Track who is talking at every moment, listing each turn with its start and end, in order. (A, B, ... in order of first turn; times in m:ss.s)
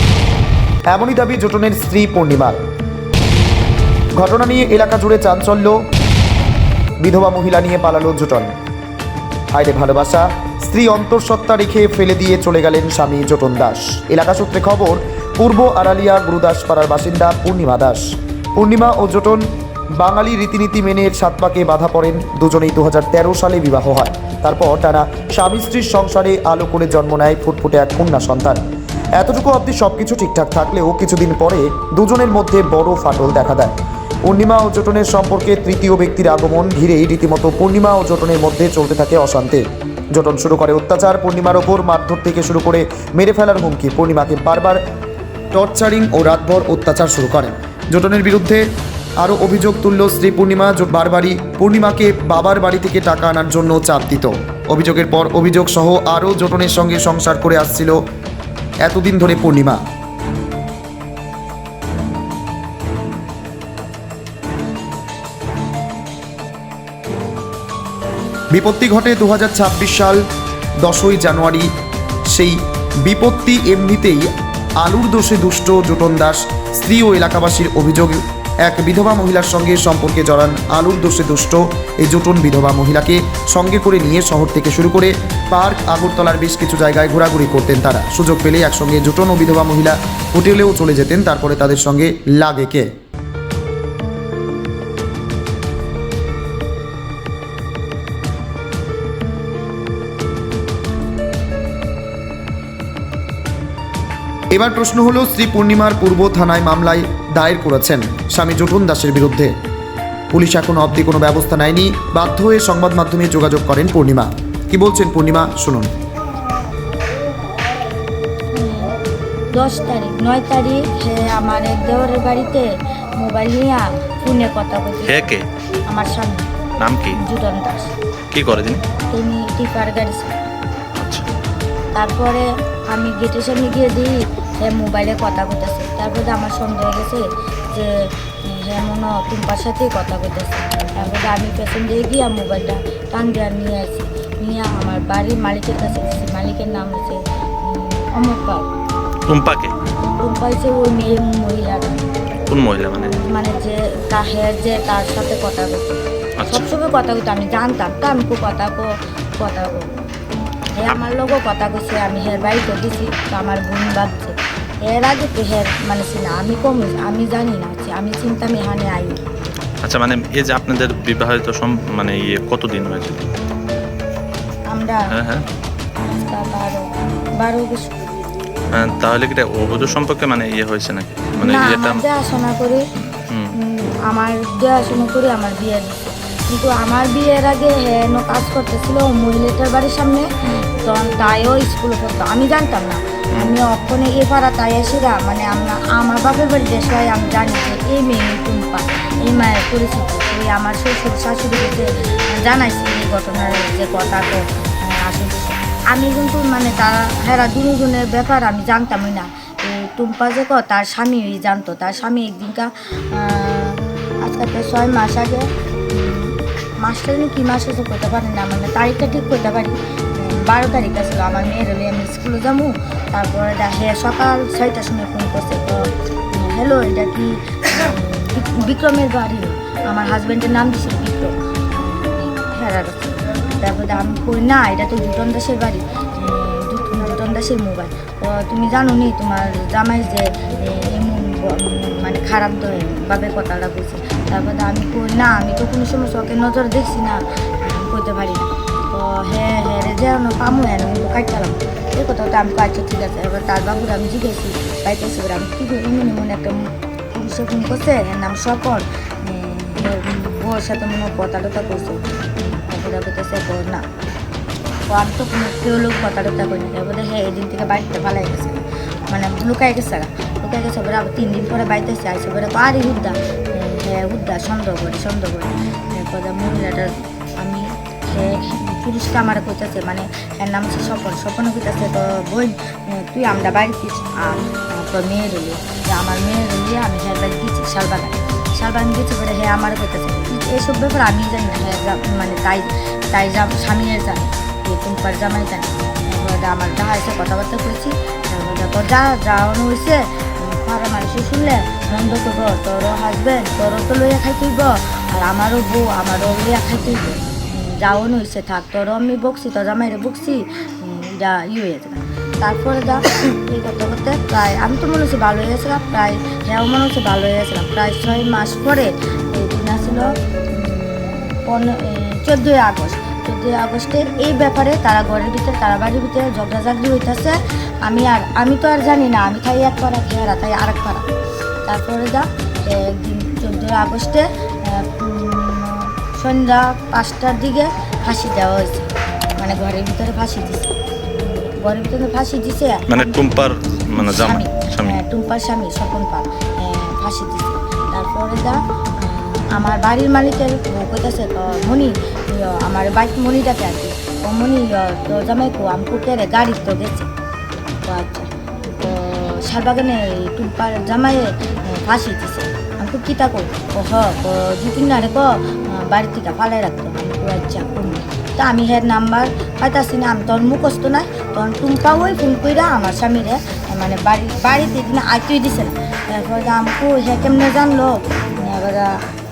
0:00.9-0:02.6 A
0:04.2-0:05.8 A
0:07.0-0:08.5 A
0:09.5-0:18.0 A
0:18.6-0:19.4 A
0:20.0-0:28.6 A
0:29.2-0:44.8 A
0:45.5-0:48.7 A
0:49.2-0:58.0 A
0:58.8-0:59.8 A
1:08.5-1:10.2 A
1:10.8-1:11.7 A
1:12.3-1:32.9 A
1:44.5-1:49.5 A
1:50.3-1:55.9 A
1:58.5-1:59.0 B
1:59.5-2:05.4 B
2:05.1-2:05.4 C
2:05.9-2:06.5 B
2:06.8-2:07.2 C
2:07.2-2:07.9 B
2:08.3-2:08.8 C
2:09.0-2:10.3 B
2:11.0-2:11.3 C
2:11.9-2:28.6 B
2:29.3-2:29.7 C
2:30.1-2:32.0 B
2:32.5-2:33.1 C
2:33.1-2:39.9 B
2:40.8-2:49.2 B
2:49.8-2:53.2 C
2:54.7-2:55.1 B
2:55.1-2:55.4 C
2:56.0-2:56.9 B
2:57.4-2:58.0 B
2:58.7-3:02.0 C
3:01.4-3:02.8 B
3:03.1-3:03.5 C
3:03.6-4:23.8 B
4:24.9-5:31.0 B
5:31.7-5:43.2 B
5:42.9-5:45.0 C
5:44.0-5:57.1 B
5:57.9-6:19.1 B